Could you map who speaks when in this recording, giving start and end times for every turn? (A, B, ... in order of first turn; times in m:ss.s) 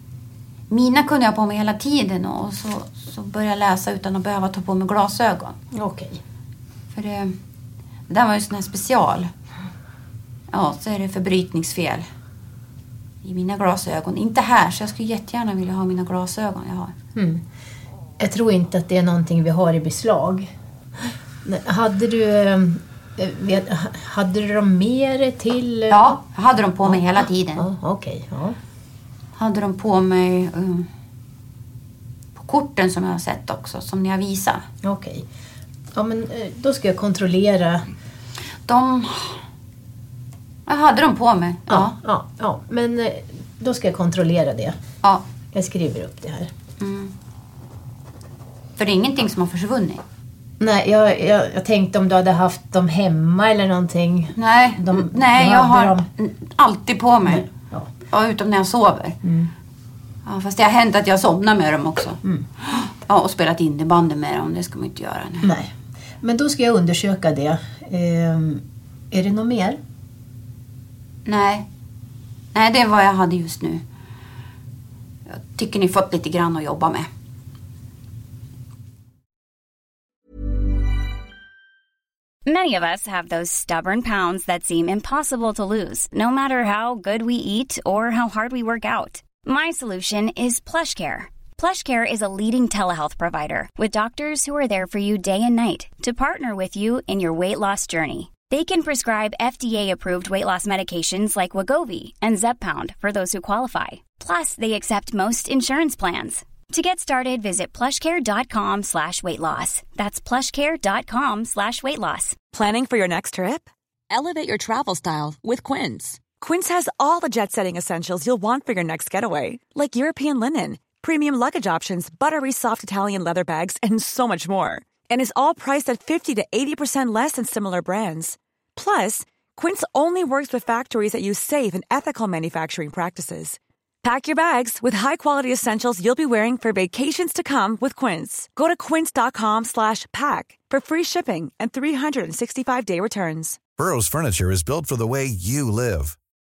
0:00.7-0:05.6 A
0:05.7-0:06.2 B
0:06.9-0:07.3 A
0:08.1-0:09.3 A
0:10.5-0:12.0 A
0:13.2-0:16.9 A
0:17.2-0:17.4 B
0:18.2-0:20.5 B
0:21.4-0:26.1 B
0:25.9-0:27.6 A
0:26.8-0:28.6 B
0:29.4-0:30.9 A
0:32.4-0:34.7 A
0:34.8-0:35.2 B
0:35.9-0:37.9 B
0:38.7-0:39.4 A
0:40.7-0:42.0 A
0:41.7-0:44.8 B
0:45.5-0:46.5 B
0:46.8-0:47.1 A
0:48.8-0:50.0 A
0:50.6-0:56.1 B
0:54.4-0:57.4 A
0:57.2-0:57.9 B
0:58.1-0:59.2 A
0:59.2-0:59.5 B
1:00.2-1:05.5 A
1:05.4-1:09.8 B
1:11.2-1:11.7 A
1:12.5-1:13.8 A
1:15.3-1:17.1 A
1:22.4-1:52.4 C
1:52.5-2:23.6 D
2:23.8-2:26.2 E